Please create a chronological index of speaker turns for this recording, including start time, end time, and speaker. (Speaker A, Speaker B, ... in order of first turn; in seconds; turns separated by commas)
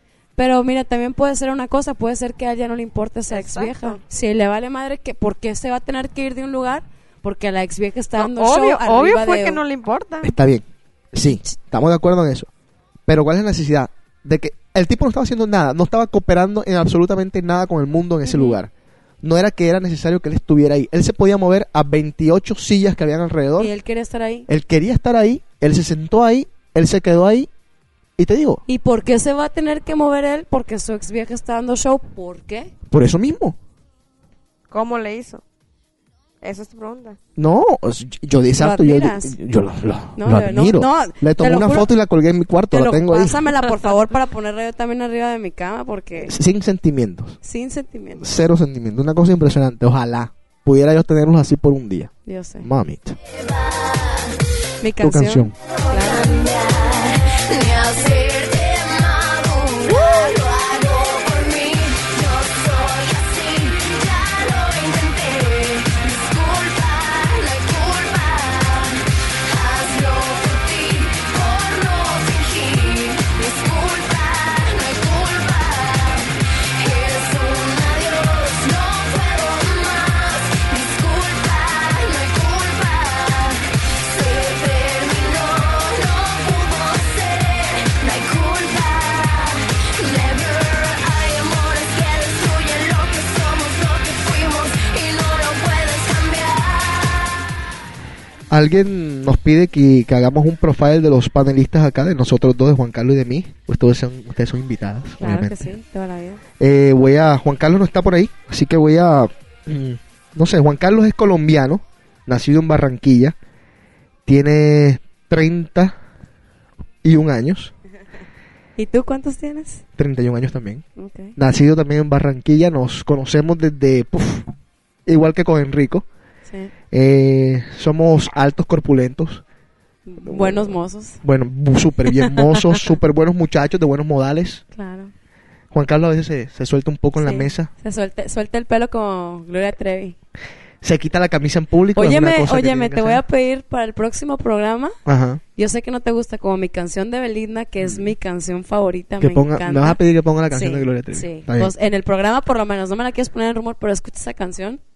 Speaker A: 0.4-9.6, Speaker B: 3.3-4.0, Speaker B: 8.2-10.3, Speaker C: 10.2-12.5, Speaker A: 11.2-11.6, Speaker C: 13.1-18.7, Speaker A: 18.2-18.6, Speaker C: 19.2-23.7, Speaker A: 23.6-24.5, Speaker C: 24.5-27.5, Speaker C: 28.2-28.6, Speaker A: 28.7-32.7, Speaker C: 32.9-33.6, Speaker B: 34.7-35.4, Speaker B: 36.4-37.2, Speaker C: 37.4-43.5, Speaker A: 38.6-39.4, Speaker A: 40.2-41.9, Speaker A: 42.7-46.3, Speaker C: 46.2-47.4, Speaker A: 47.4-48.2, Speaker C: 48.2-53.2, Speaker A: 52.3-52.7, Speaker D: 53.5-54.3, Speaker A: 54.8-56.4, Speaker C: 55.0-55.5, Speaker D: 55.9-97.5, Speaker C: 98.5-105.7, Speaker A: 105.2-106.4, Speaker C: 106.6-113.3, Speaker C: 114.3-116.0, Speaker C: 117.0-117.7, Speaker A: 118.8-119.8, Speaker C: 120.0-120.8, Speaker A: 121.0-121.4, Speaker C: 121.4-124.5, Speaker C: 125.1-126.1, Speaker A: 126.5-126.7, Speaker C: 126.9-129.4, Speaker A: 130.1-131.2, Speaker C: 130.2-134.6, Speaker A: 132.1-132.9, Speaker A: 134.7-135.1, Speaker C: 135.7-137.7, Speaker A: 137.2-140.2, Speaker C: 140.8-143.2, Speaker A: 142.0-145.0, Speaker C: 145.1-145.4, Speaker A: 145.6-150.0, Speaker C: 147.8-148.1, Speaker C: 149.2-151.7, Speaker A: 150.5-154.8